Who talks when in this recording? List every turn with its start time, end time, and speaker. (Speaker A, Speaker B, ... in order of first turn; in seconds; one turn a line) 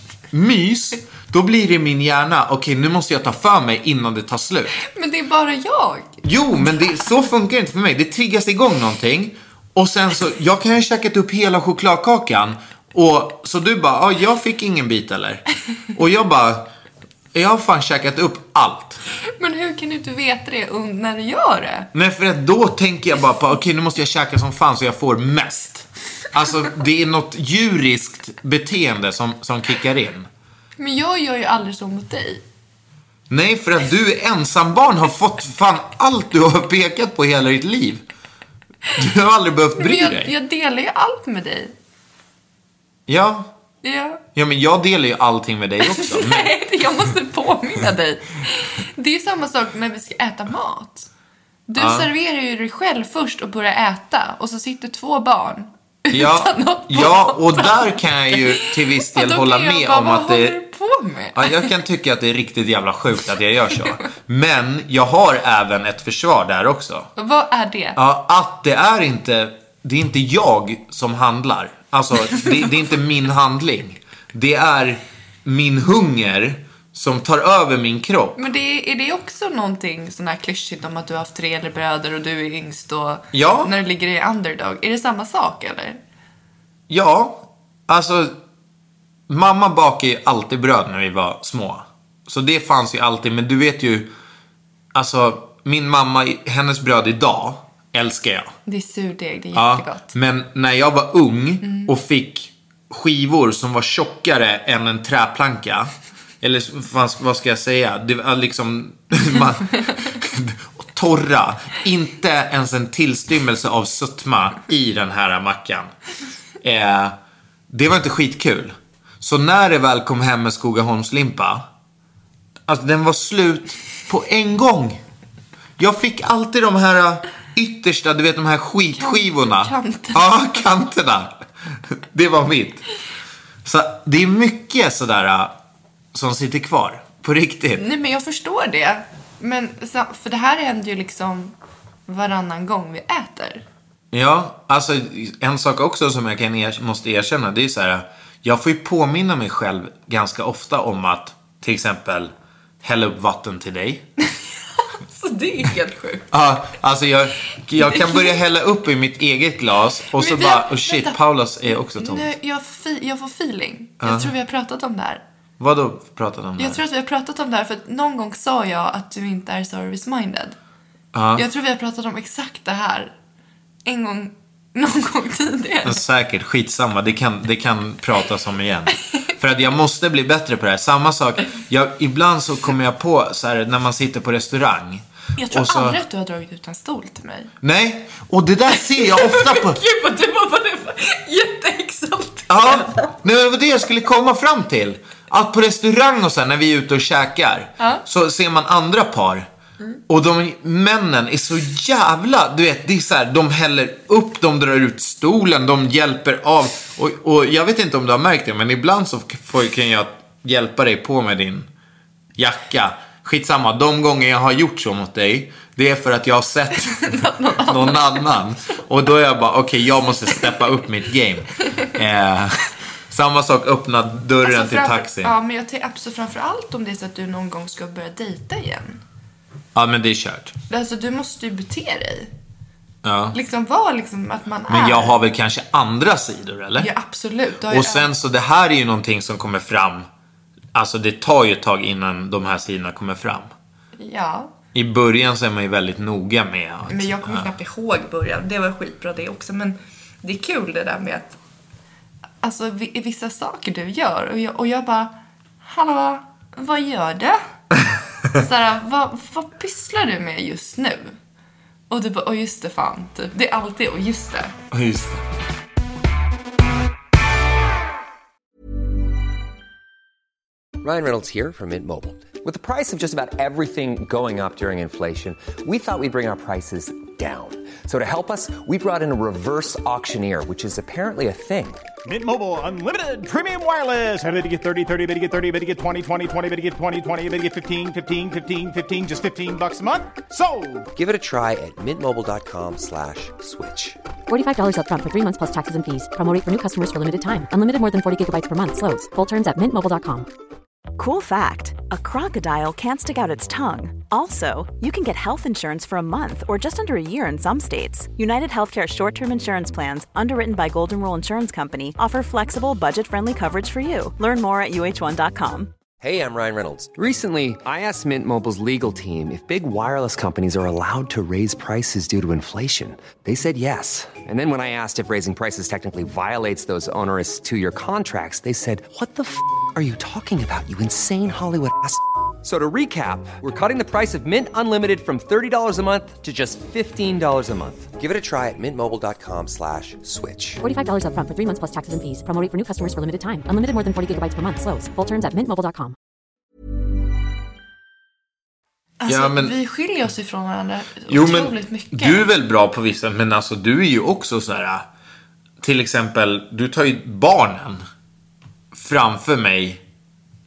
Speaker A: 0.3-4.8
Speaker B: 4.8-6.2
Speaker A: 6.2-16.7
Speaker A: 17.3-19.0
Speaker B: 19.4-21.9
Speaker A: 21.9-30.3
Speaker B: 30.8-32.4
Speaker A: 33.3-38.0
Speaker A: 38.9-40.3
Speaker B: 39.8-41.7
Speaker A: 43.1-43.5
Speaker B: 43.8-44.2
Speaker A: 44.3-46.5
Speaker B: 45.8-51.1
Speaker B: 51.7-61.7
Speaker A: 51.8-52.1
Speaker A: 56.1-60.6
Speaker A: 61.3-67.1
Speaker B: 67.2-68.0
Speaker A: 68.0-78.4
Speaker B: 78.3-86.0
Speaker A: 83.3-83.7
Speaker A: 86.9-88.3
Speaker A: 89.3-94.1
Speaker A: 94.9-98.5
Speaker B: 98.7-100.1
Speaker A: 99.5-115.9
Speaker A: 116.6-117.1
Speaker A: 117.7-121.6
Speaker A: 122.7-125.0
Speaker A: 125.8-131.3
Speaker B: 128.9-130.6
Speaker A: 131.9-132.9
Speaker A: 133.6-135.5
Speaker A: 136.1-137.8
Speaker B: 137.8-141.5
Speaker B: 142.1-143.6
Speaker A: 144.1-154.1
Speaker B: 154.8-156.3
Speaker A: 156.3-162.3
Speaker B: 157.8-158.4
Speaker B: 160.1-165.2
Speaker A: 164.0-164.3
Speaker A: 165.6-166.8
Speaker B: 166.6-170.6
Speaker A: 171.1-171.4
Speaker B: 171.4-173.1
Speaker B: 173.8-176.0
Speaker A: 175.8-186.0
Speaker B: 185.4-187.5
Speaker A: 187.6-189.8
Speaker B: 188.7-193.1
Speaker A: 192.5-199.5
Speaker A: 200.1-211.7
Speaker A: 212.4-225.4
Speaker B: 216.9-218.3
Speaker B: 224.4-229.0
Speaker A: 229.7-230.6
Speaker B: 230.7-232.3
Speaker A: 233.0-233.4
Speaker B: 233.3-235.2
Speaker A: 234.7-236.9
Speaker B: 236.8-238.1
Speaker A: 237.7-240.1
Speaker A: 240.7-243.5
Speaker B: 244.0-244.5
Speaker A: 244.7-247.5
Speaker B: 246.9-251.4
Speaker B: 252.4-257.4
Speaker B: 258.3-261.2
Speaker B: 261.9-264.6
Speaker A: 264.7-265.2
Speaker C: 270.8-281.8
Speaker D: 282.1-290.9
Speaker C: 290.9-294.0
Speaker E: 294.3-300.3
Speaker F: 301.0-315.7
Speaker C: 316.0-340.6
Speaker E: 340.6-345.9
Speaker B: 349.0-352.2
Speaker A: 349.1-349.5
Speaker A: 351.1-354.8
Speaker A: 355.6-357.8
Speaker A: 358.7-359.8